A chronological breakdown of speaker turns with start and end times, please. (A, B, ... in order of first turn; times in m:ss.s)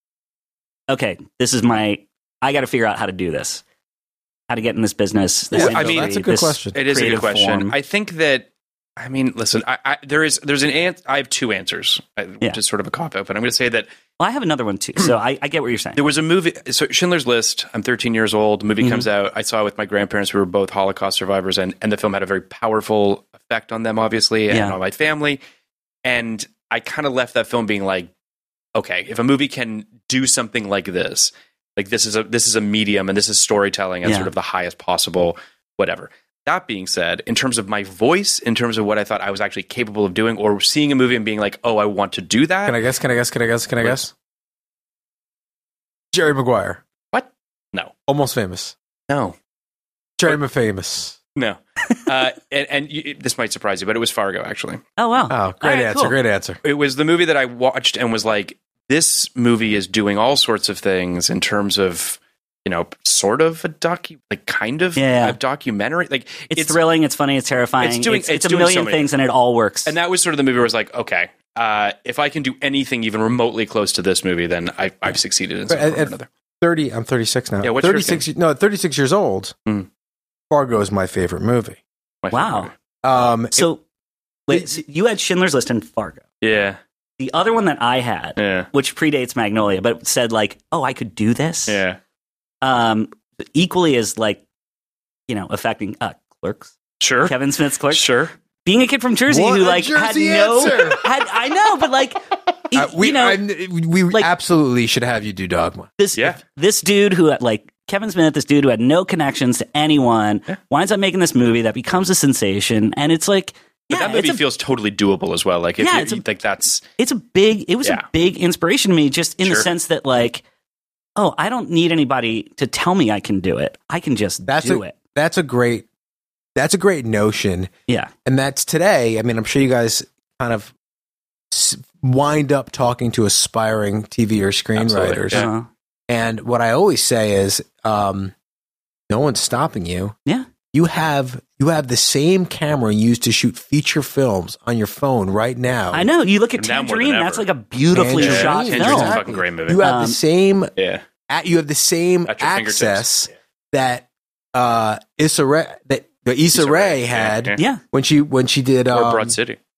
0:00.9-0:03.6 A
0:04.5-0:07.7 A
0:05.5-0:06.8 B
0:05.5-0:08.5 C
0:09.0-0:13.9 C
0:14.2-0:16.0 A
0:16.0-0:25.4 C
0:18.8-0:19.0 A
0:24.5-0:24.8 A
0:26.0-0:28.1 C
0:28.7-0:42.8 C
0:34.0-0:34.3 A
0:42.6-0:44.1 B
0:46.1-0:46.8 B
0:47.1-0:47.9 C
0:48.1-0:48.7 B
0:49.1-0:49.3 C
0:50.2-0:51.2 B
0:51.4-0:54.8 C
0:55.0-0:56.2 A
0:55.3-0:56.6 B
0:56.6-1:06.8 C
1:05.0-1:05.4 A
1:06.5-1:09.9 A
1:07.8-1:09.1 C
1:09.8-1:16.3 C
1:15.7-1:19.5 B
1:17.6-1:18.2 C
1:20.5-1:21.8 B
1:22.2-1:22.7 C
1:22.3-1:22.7 A
1:23.0-1:23.7 B
1:23.6-1:23.8 A
1:24.5-1:26.2 A
1:26.4-1:26.8 C
1:27.2-1:31.8 A
1:28.4-1:28.7 C
1:31.7-1:32.0 C
1:32.6-1:34.4 A
1:35.3-1:38.1 A
1:37.0-1:37.3 C
1:37.9-1:38.3 C
1:38.6-1:43.4 A
1:39.3-1:41.0 B
1:42.7-1:45.9 B
1:46.0-1:54.4 A
1:53.9-1:56.8 C
1:55.8-1:56.2 A
1:57.0-2:00.4 A
1:59.4-1:59.7 C
2:01.2-2:04.9 A
2:04.5-2:05.9 B
2:06.6-2:07.7 B
2:08.2-2:10.7 B
2:11.5-2:15.4 B
2:14.8-2:15.5 C
2:15.3-2:15.7 A
2:16.1-2:18.3 B
2:19.1-2:20.1 B
2:20.7-2:26.1 B
2:25.9-2:29.2 A
2:26.6-2:27.5 C
2:27.9-2:30.7 B
2:28.1-2:29.8 C
2:29.8-2:30.2 A
2:30.8-2:31.0 C
2:31.3-2:39.3 B
2:32.2-2:33.2 C
2:36.5-2:37.6 C
2:38.9-2:39.6 C